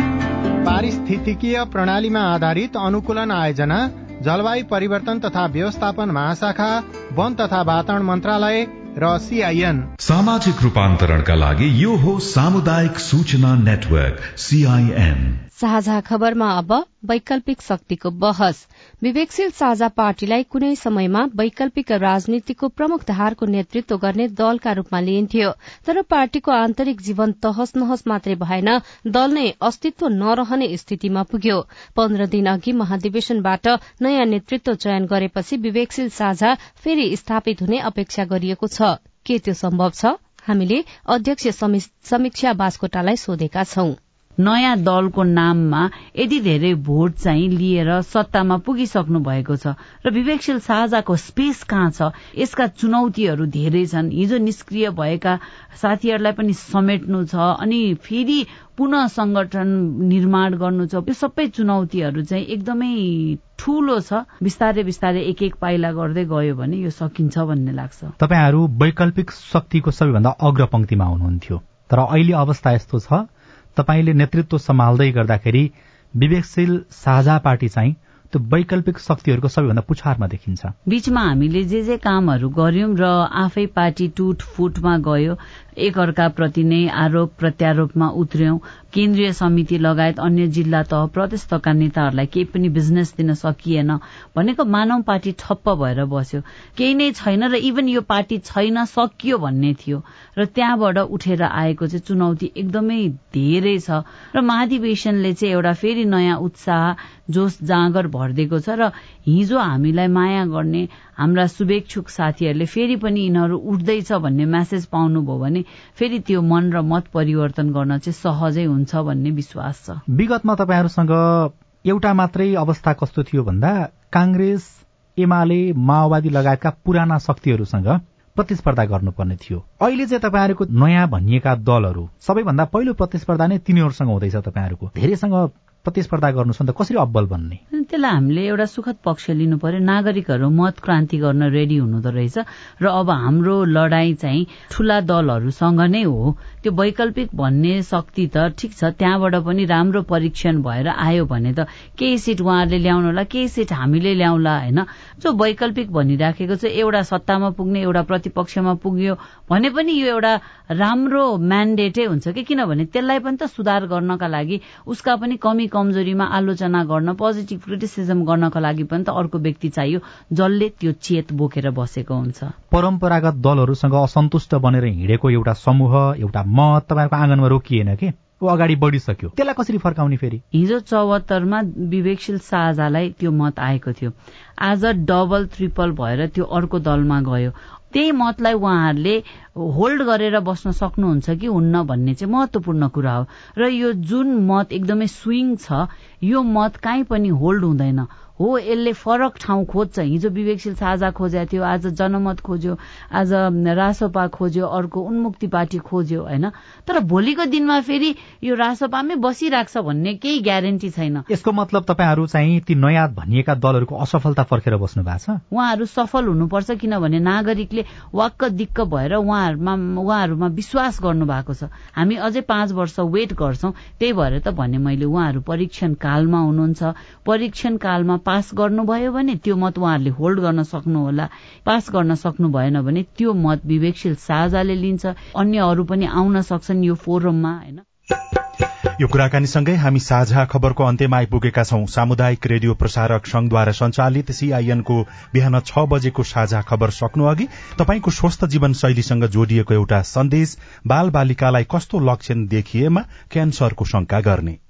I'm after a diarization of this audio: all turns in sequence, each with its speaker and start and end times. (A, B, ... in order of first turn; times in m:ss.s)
0:00.6-0:09.9 A
0:10.0-0:15.4 B
0:15.6-0:44.0 C
0:44.4-1:08.1 D
1:08.2-1:20.8 E
1:20.9-2:00.0 D
2:00.1-2:17.6 E
2:17.7-2:52.5 D
2:52.7-3:00.4 E
3:00.5-3:31.2 D
3:31.3-3:35.4 E
3:35.5-3:57.8 D
3:59.0-4:14.6 F